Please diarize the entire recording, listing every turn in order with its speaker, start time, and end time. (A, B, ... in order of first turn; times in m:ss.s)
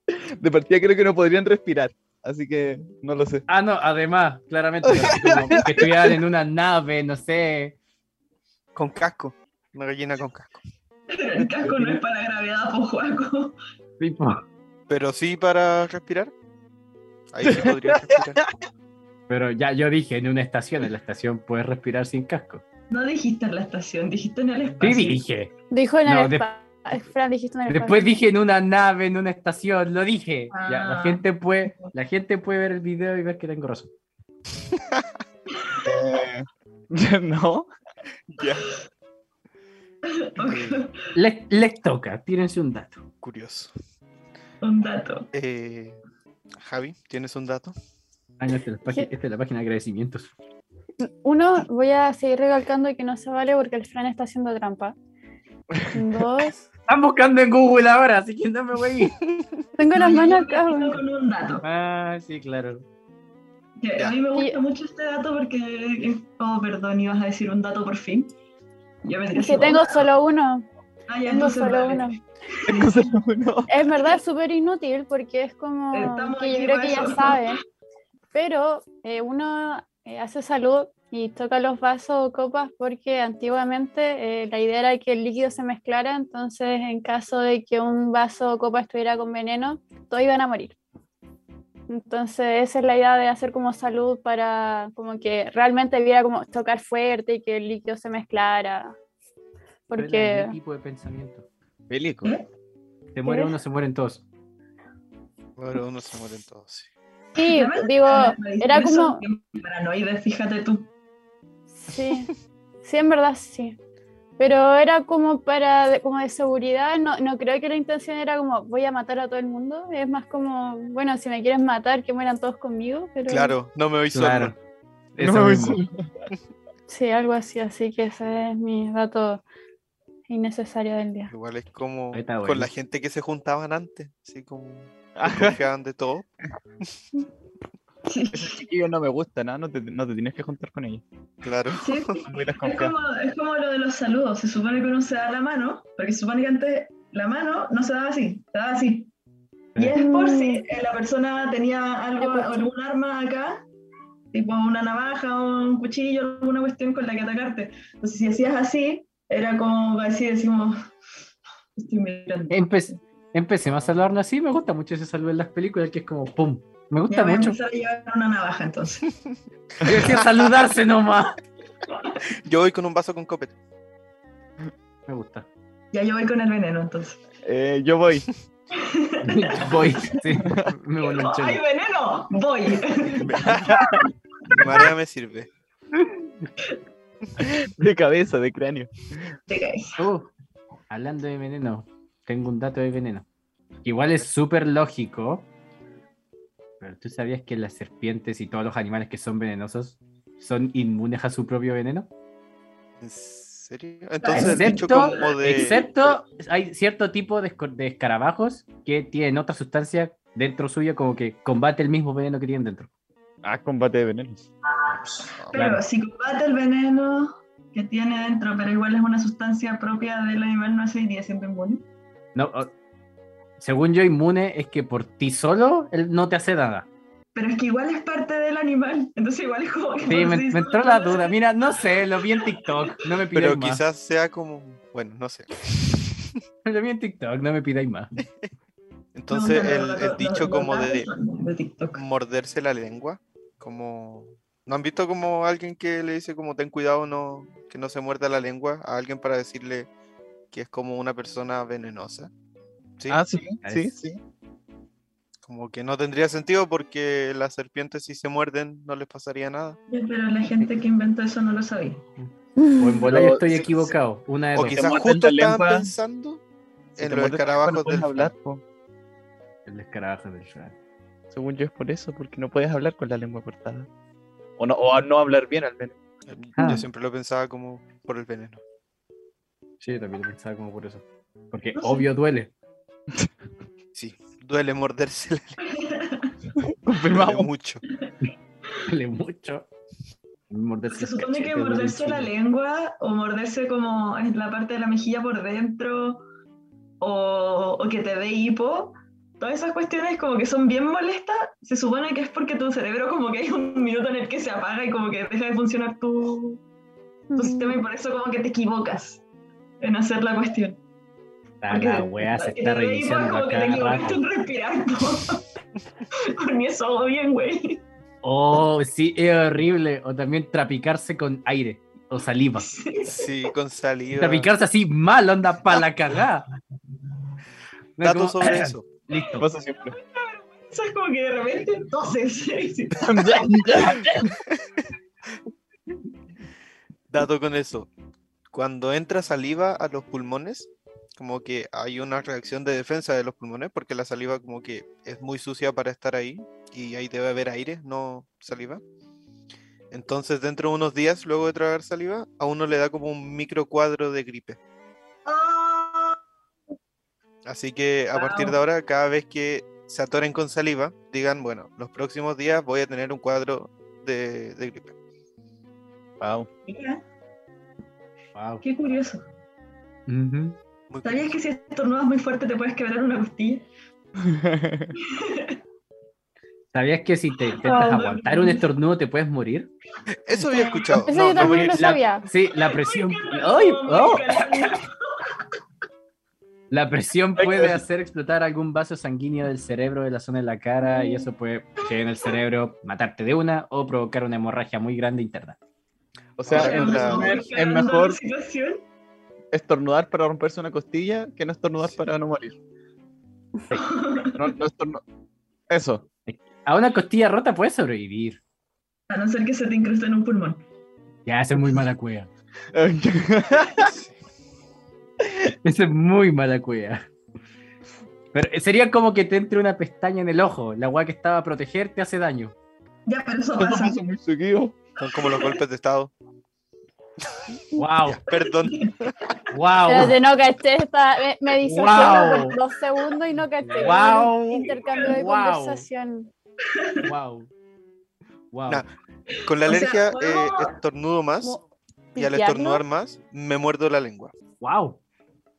0:00.4-0:03.4 A
0:03.5-0:07.8 B
0:04.9-0:06.2 A
0:08.8-0:10.6 C
0:11.1-0:13.6 D
0:14.0-0:14.4 B
0:14.9-0:16.3 C
0:17.3-0:18.4 C
0:17.4-0:18.5 A
0:19.3-0:22.6 B
0:22.9-0:25.2 D
0:24.8-0:25.5 B
0:25.7-0:28.2 E
0:26.0-0:26.5 B
0:27.7-0:33.9 B
0:30.5-0:31.9 D
0:34.7-0:35.0 C
0:35.8-0:37.7 A
0:38.4-0:38.6 C
0:40.1-0:41.0 D
0:40.4-0:40.8 C
0:41.1-0:43.0 B
0:43.2-0:43.7 C
0:44.6-0:45.3 D
0:45.3-0:46.0 C
0:46.6-0:47.8 C
0:48.4-0:50.3 B
0:51.0-0:54.9 E
0:55.9-0:56.7 E
0:56.9-0:59.2 B
0:59.8-1:01.0 E
0:59.9-1:01.6 D
1:01.6-1:02.8 B
1:03.8-1:08.3 D
1:09.0-1:10.1 D
1:09.3-1:10.7 E
1:11.1-1:13.1 D
1:11.3-1:12.2 E
1:12.7-1:13.7 A
1:13.7-1:17.6 E
1:15.9-1:17.5 D
1:18.3-1:30.8 E
1:31.9-1:38.9 E
1:39.9-1:40.6 E
1:39.9-1:41.5 B
1:41.9-1:42.3 A
1:43.1-1:44.2 B
1:43.3-1:43.5 E
1:45.6-1:46.9 C
1:47.4-1:49.2 E
1:47.4-1:50.9 D
1:51.7-1:53.8 E
1:54.4-2:03.6 E
2:03.3-2:04.6 C
2:04.1-2:04.6 B
2:05.2-2:05.8 B
2:05.2-2:06.0 A
2:06.9-2:09.4 E
2:10.3-2:11.3 E
2:11.3-2:16.3 C
2:12.1-2:12.7 B
2:15.2-2:15.6 A
2:18.1-2:18.6 D
2:18.3-2:21.0 A
2:21.4-2:22.1 C
2:21.8-2:29.1 D
2:22.2-2:22.9 A
2:29.8-2:33.6 D
2:30.0-2:30.6 E
2:32.2-2:32.7 E
2:34.3-2:40.8 D
2:41.8-2:43.0 D
2:42.5-2:47.6 B
2:47.1-2:49.1 D
2:49.8-2:51.4 B
2:52.4-2:53.6 C
2:55.1-2:55.5 B
2:55.9-2:57.2 D
2:57.4-2:58.3 A
2:58.8-3:00.2 D
2:59.2-3:01.6 B
3:00.4-3:00.7 A
3:01.0-3:04.8 D
3:03.2-3:03.8 C
3:03.4-3:04.0 A
3:04.5-3:05.5 C
3:07.4-3:09.4 A
3:09.5-3:10.0 D
3:10.0-3:10.3 B
3:10.9-3:13.3 B
3:13.8-3:15.5 B
3:16.8-3:22.1 B
3:23.0-3:25.8 C
3:24.2-3:25.8 D
3:24.3-3:32.9 B
3:33.4-3:34.4 A
3:34.7-3:41.8 D
3:35.4-3:35.6 C
3:35.5-3:35.8 B
3:42.3-3:42.7 B
3:43.6-3:46.9 B
3:47.3-3:51.4 D
3:50.1-3:53.8 B
3:51.9-3:52.7 D
3:53.3-3:56.4 C
3:56.6-3:58.1 B
3:59.2-4:01.1 C
3:59.3-4:02.0 D
4:01.9-4:09.9 C
4:10.5-4:12.3 C
4:13.1-4:14.2 A
4:13.6-4:13.9 B
4:15.4-4:19.8 C
4:19.9-4:22.0 D
4:22.2-4:24.8 B
4:22.6-4:23.1 E
4:23.0-4:23.7 A
4:24.6-4:26.4 C
4:24.7-4:25.8 A
4:27.0-4:28.3 C
4:27.0-4:28.6 A
4:29.7-4:30.8 B
4:31.3-4:33.9 A
4:34.6-4:36.0 A
4:36.3-4:38.6 C
4:36.6-4:36.8 B
4:39.8-4:42.5 B
4:41.8-4:42.1 D
4:43.9-4:45.6 C
4:45.7-4:46.3 D
4:46.6-4:47.5 A
4:47.1-4:47.8 C
4:48.8-4:49.7 B
4:50.5-4:52.3 B
4:50.9-4:56.2 D
4:57.0-5:06.6 D
5:07.3-5:07.8 E
5:07.3-5:09.2 D
5:09.8-5:10.8 D
5:11.6-5:14.2 B
5:11.7-5:15.4 D
5:16.2-5:17.8 D
5:18.2-5:22.7 B
5:22.6-5:23.4 D
5:23.0-5:24.5 C
5:24.2-5:26.5 B
5:28.0-5:29.5 B
5:28.0-5:28.8 C
5:29.4-5:30.0 A
5:29.8-5:33.5 D
5:33.0-5:34.3 A
5:37.1-5:37.9 C
5:38.5-5:48.8 C
5:49.9-5:54.6 C
5:55.2-5:56.2 D
5:57.4-6:04.9 C
5:58.1-5:58.6 D
6:06.2-6:06.5 A
6:06.7-6:07.0 D
6:08.3-6:08.6 B
6:08.6-6:09.2 D
6:10.1-6:10.6 B
6:10.9-6:11.3 C
6:11.0-6:13.6 D
6:14.2-6:14.9 A
6:15.0-6:15.6 D
6:16.7-6:19.7 B
6:17.5-6:18.6 D
6:17.6-6:17.9 E
6:20.2-6:22.0 C
6:20.5-6:22.3 E
6:21.3-6:24.8 B
6:22.5-6:25.3 D
6:26.7-6:35.6 B
6:27.4-6:27.8 A
6:30.8-6:31.3 E
6:36.4-6:38.2 A
6:36.4-6:37.4 C
6:36.5-6:38.8 D
6:39.5-6:42.6 A
6:43.7-6:44.5 D
6:44.3-6:45.0 A
6:45.7-6:46.0 A
6:46.3-6:48.4 B
6:49.1-6:50.6 D
6:51.3-6:52.3 B
6:52.7-6:53.9 A
6:53.8-6:54.1 C
6:55.6-6:57.0 B
6:58.3-7:02.6 B
7:03.1-7:04.0 D
7:03.6-7:04.8 A
7:05.0-7:06.1 C
7:05.3-7:05.6 D
7:07.8-7:08.2 B
7:08.1-7:09.1 C
7:08.6-7:08.9 D
7:09.5-7:10.2 B
7:09.9-7:16.3 E
7:11.6-7:12.6 B
7:12.0-7:12.4 D
7:13.7-7:15.8 B
7:14.9-7:15.1 D
7:16.7-7:17.0 D
7:17.0-7:17.5 B
7:18.5-7:18.8 B
7:19.4-7:21.6 C
7:19.6-7:20.7 D
7:22.2-7:22.8 E
7:22.2-7:24.3 C
7:24.6-7:25.0 B